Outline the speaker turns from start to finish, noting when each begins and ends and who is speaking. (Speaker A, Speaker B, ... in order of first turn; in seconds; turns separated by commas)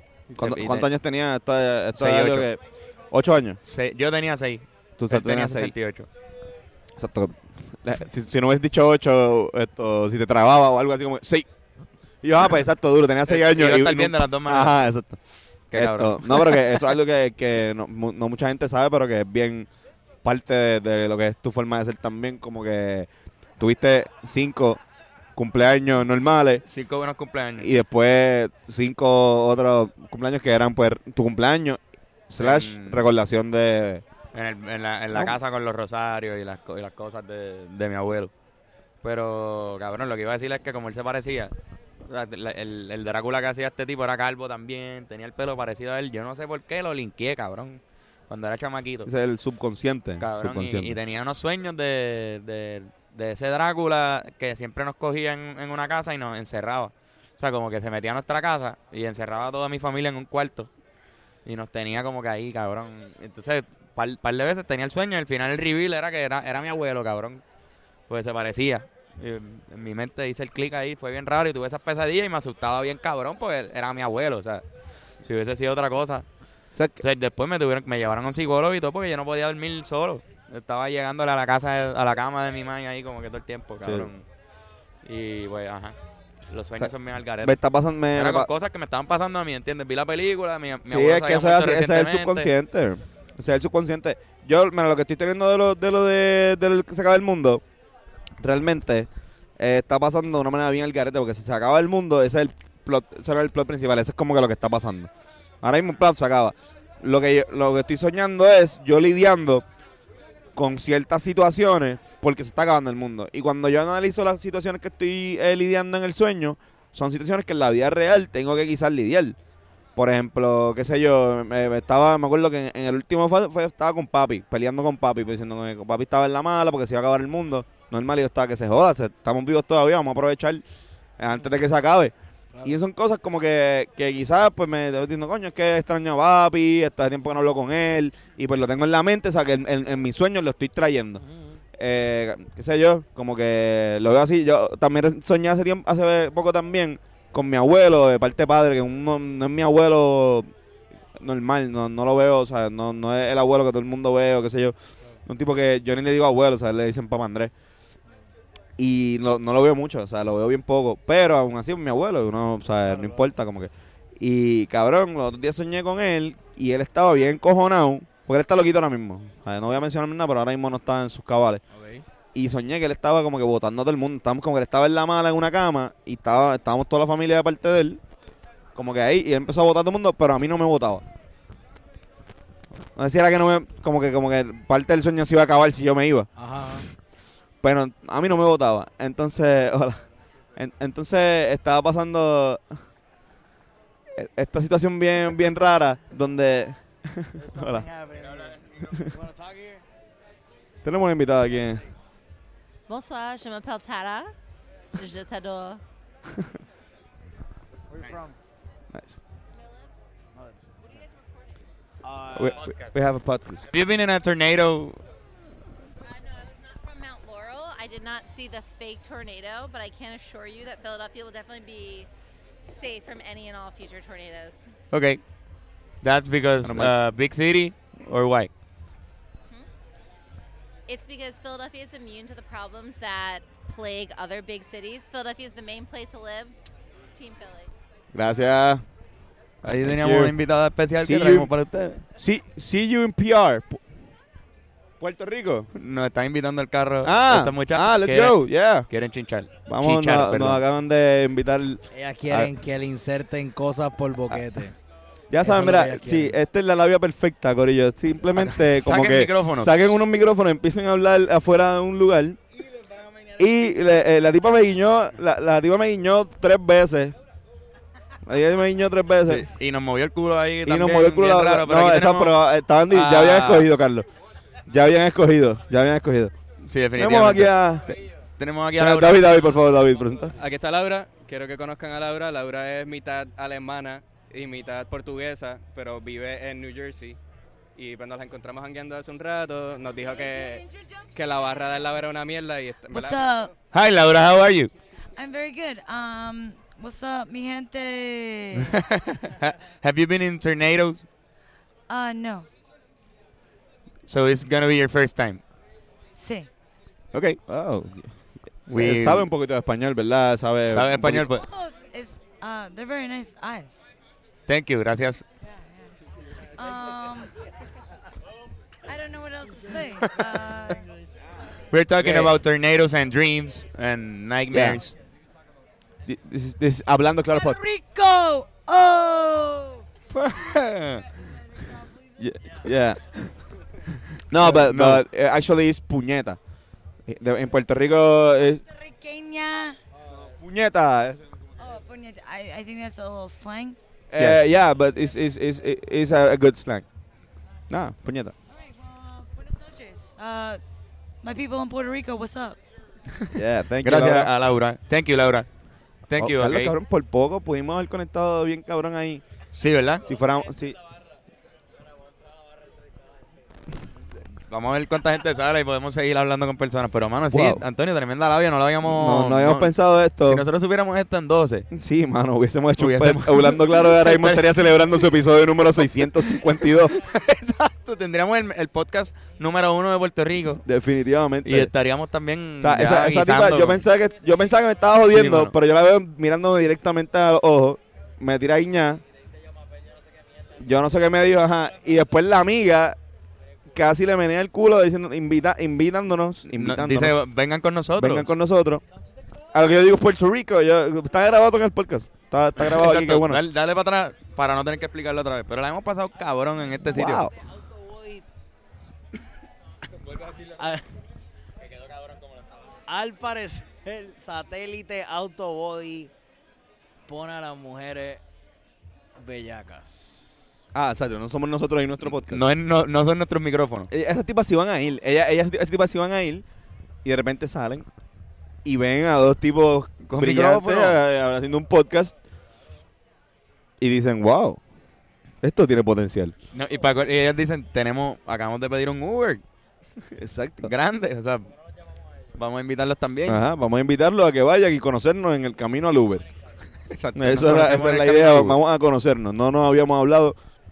Speaker A: 0.3-0.9, Speaker B: 0.3-2.6, Speaker A: 1.9-2.5, Speaker B: 3.1-3.6, Speaker A: 3.6-6.1, Speaker B: 5.0-5.7, Speaker B: 7.0-11.5, Speaker B: 12.2-15.2, Speaker A: 13.2-14.8, Speaker A: 15.7-16.7, Speaker B: 15.7-19.7, Speaker B: 20.2-23.1, Speaker B: 23.6-24.8, Speaker B: 25.4-26.6, Speaker A: 26.6-27.7, Speaker B: 27.6-34.0, Speaker A: 32.4-33.0, Speaker A: 34.3-38.3, Speaker B: 35.1-35.4, Speaker A: 39.0-41.5, Speaker A: 42.1-49.1, Speaker B: 49.0-51.0, Speaker A: 50.2-60.7, Speaker A: 61.4-67.4, Speaker A: 68.1-74.6, Speaker A: 75.2-76.2, Speaker B: 76.7-77.0, Speaker A: 77.0-84.2, Speaker B: 83.8-84.1, Speaker A: 85.0-86.0, Speaker A: 86.5-87.5, Speaker B: 86.8-88.5, Speaker A: 88.1-92.5, Speaker B: 90.9-97.6, Speaker B: 98.4-105.1, Speaker B: 105.6-109.6, Speaker B: 110.5-119.4, Speaker B: 120.0-130.6, Speaker B: 131.2-141.2, Speaker C: 141.2-141.6, Speaker B: 141.7-150.5, Speaker B: 151.2-154.7, Speaker B: 155.2-157.5, Speaker B: 158.8-171.6, Speaker C: 162.9-163.2, Speaker C: 171.7-172.0, Speaker B: 172.3-178.0, Speaker B: 178.7-181.0, Speaker B: 182.9-186.8, Speaker C: 186.3-186.8, Speaker B: 187.6-190.0, Speaker B: 190.6-192.8, Speaker B: 194.2-197.9, Speaker C: 197.4-199.8, Speaker B: 200.8-201.8, Speaker D: 202.9-204.3, Speaker D: 204.9-205.8, Speaker C: 207.9-208.4, Speaker B: 208.9-209.2, Speaker D: 209.5-209.9, Speaker C: 210.3-210.6, Speaker D: 210.9-211.5, Speaker C: 212.0-212.7, Speaker B: 212.3-213.7, Speaker A: 213.7-215.0, Speaker D: 216.0-222.1, Speaker D: 222.6-224.7, Speaker A: 224.9-225.2, Speaker A: 226.0-228.5, Speaker B: 226.6-226.9, Speaker D: 230.9-236.5, Speaker D: 237.1-237.7, Speaker B: 238.1-238.8, Speaker A: 239.6-242.0, Speaker B: 239.8-240.3, Speaker B: 241.0-241.5, Speaker B: 242.1-243.8, Speaker B: 245.0-245.7, Speaker A: 245.7-250.6, Speaker B: 247.0-248.9, Speaker B: 249.7-252.5, Speaker C: 251.9-254.7, Speaker B: 255.3-262.4, Speaker C: 255.4-256.4, Speaker A: 258.4-259.9, Speaker B: 263.3-267.2, Speaker B: 268.2-269.5, Speaker A: 269.2-272.4, Speaker B: 270.6-274.1, Speaker A: 272.9-273.7, Speaker B: 274.6-276.3, Speaker A: 276.6-279.6, Speaker B: 276.9-277.9, Speaker B: 278.8-280.4, Speaker E: 280.4-287.2, Speaker E: 287.8-293.5, Speaker F: 290.2-291.9, Speaker F: 292.9-293.5, Speaker A: 293.7-294.7, Speaker F: 295.1-298.8, Speaker A: 298.7-301.1, Speaker F: 301.9-302.5, Speaker A: 304.1-305.4, Speaker F: 306.1-306.5, Speaker A: 307.1-307.4, Speaker B: 307.4-311.2, Speaker A: 308.7-309.3, Speaker A: 310.7-311.4, Speaker F: 311.3-313.9, Speaker A: 314.5-315.2, Speaker F: 315.4-317.3, Speaker F: 318.8-320.9, Speaker A: 321.7-325.0, Speaker B: 322.0-322.3, Speaker B: 324.5-324.8, Speaker B: 326.1-327.6, Speaker F: 327.3-329.8, Speaker A: 330.1-331.0, Speaker F: 331.5-332.0, Speaker B: 332.2-333.0, Speaker B: 334.3-336.4, Speaker A: 334.4-335.0, Speaker B: 337.0-338.6, Speaker F: 338.7-339.8, Speaker B: 340.1-341.2, Speaker F: 341.6-343.8, Speaker B: 344.1-346.8, Speaker A: 344.2-344.6, Speaker B: 347.7-348.3, Speaker F: 348.5-350.6, Speaker F: 351.2-352.6, Speaker A: 353.2-355.5, Speaker B: 353.3-354.3, Speaker A: 356.1-356.7, Speaker B: 356.1-359.2, Speaker A: 359.5-360.1, Speaker B: 360.0-360.8, Speaker A: 364.4-369.7, Speaker B: 367.3-367.6, Speaker B: 368.8-370.4, Speaker A: 370.2-371.7, Speaker B: 371.7-377.0, Speaker A: 372.8-375.1, Speaker A: 376.0-380.6, Speaker B: 380.6-381.7, Speaker A: 381.4-383.8, Speaker B: 382.6-389.0, Speaker A: 385.1-385.5, Speaker B: 390.5-393.0, Speaker B: 393.7-397.2, Speaker A: 396.4-398.3, Speaker B: 398.0-398.8, Speaker B: 399.5-403.4, Speaker A: 402.6-407.2, Speaker B: 406.9-407.3, Speaker C: 407.6-408.2, Speaker C: 410.5-410.8, Speaker C: 412.9-416.1, Speaker C: 417.1-418.2, Speaker C: 419.2-420.5, Speaker B: 420.7-422.5, Speaker A: 422.0-423.9, Speaker B: 423.9-426.4, Speaker B: 427.0-427.9, Speaker B: 428.6-432.1, Speaker A: 430.0-431.0, Speaker B: 433.8-434.6, Speaker B: 435.4-436.3, Speaker A: 436.5-439.4, Speaker B: 440.1-440.7, Speaker A: 440.6-441.5, Speaker A: 442.3-443.4, Speaker B: 443.2-446.3, Speaker A: 446.9-448.6, Speaker B: 447.1-450.4